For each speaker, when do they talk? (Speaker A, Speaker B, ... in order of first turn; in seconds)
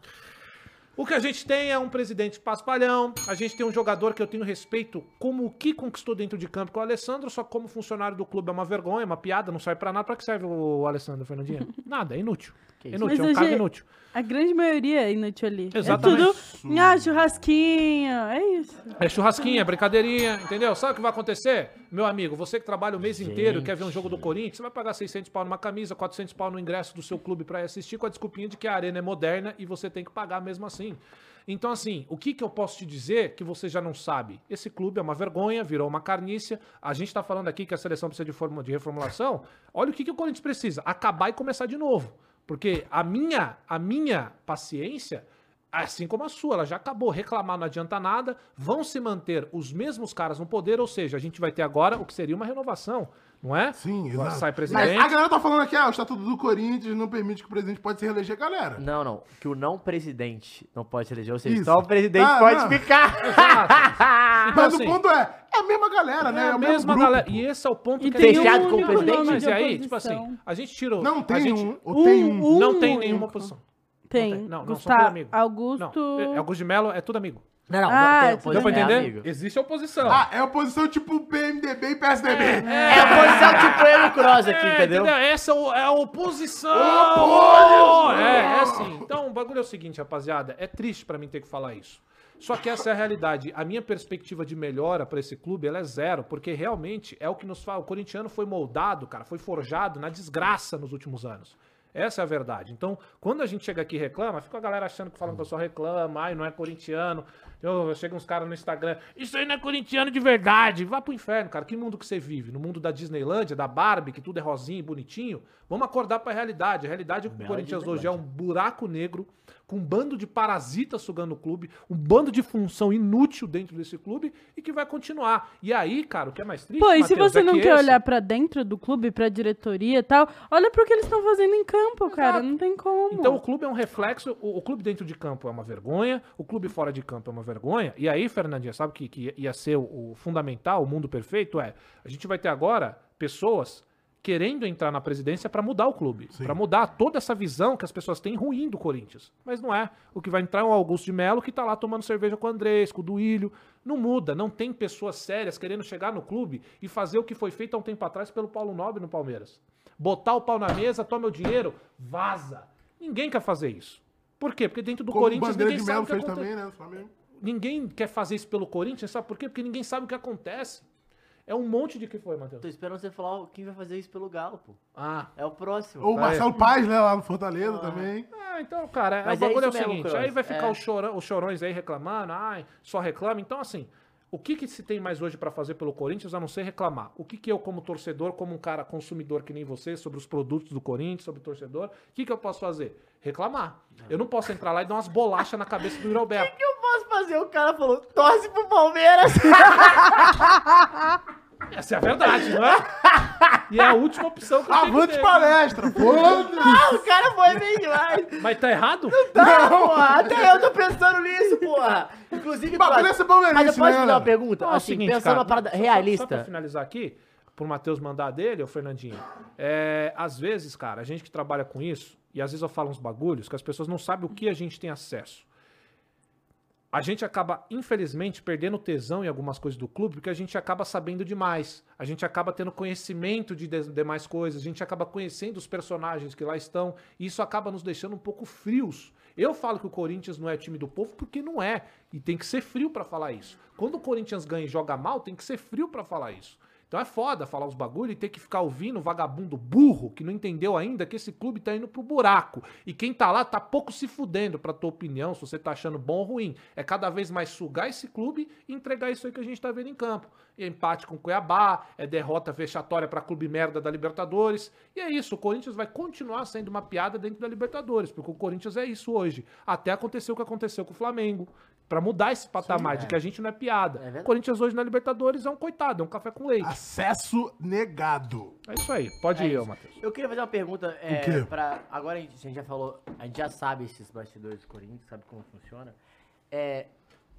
Speaker A: 1.0-13.8, 15.7-16.4, 19.0-55.1, 63.1-65.0, 66.2-71.8, 72.5-73.6, 74.1-77.5, 78.5-80.2, 82.3-128.0, 132.1-132.5, 133.1-166.5, 167.4-170.8, 171.5-172.6, 174.9-175.3, 176.1-176.5, 178.3-196.5, 201.7-202.9, 203.7-205.5, 208.4-209.2, 214.6-225.5, 226.9-276.8, 278.7-280.0
Speaker B: 12.8-13.1, 23.2-24.3, 58.8-64.5, 68.2-69.5, 77.7-79.3, 82.9-85.1, 117.3-118.2, 172.6-174.8, 175.3-176.2, 177.6-178.1, 179.2-180.8, 196.1-200.4, 202.2-203.6, 206.0-208.5, 209.1-216.5, 272.7-273.2, 274.0-274.3, 279.3-286.0, 286.5-286.9
Speaker C: 13.0-19.6, 68.0-70.3, 71.9-73.5, 74.1-76.4, 77.9-79.1, 82.6-83.4, 126.8-133.4
Speaker D: 15.8-17.1, 53.8-58.8, 61.5-62.8, 64.5-67.4, 71.0-73.2, 80.0-83.7, 86.7-89.1, 165.1-167.1, 176.0-178.3, 204.7-207.6, 209.3-210.7, 212.7-214.3, 276.6-278.6, 281.1-281.5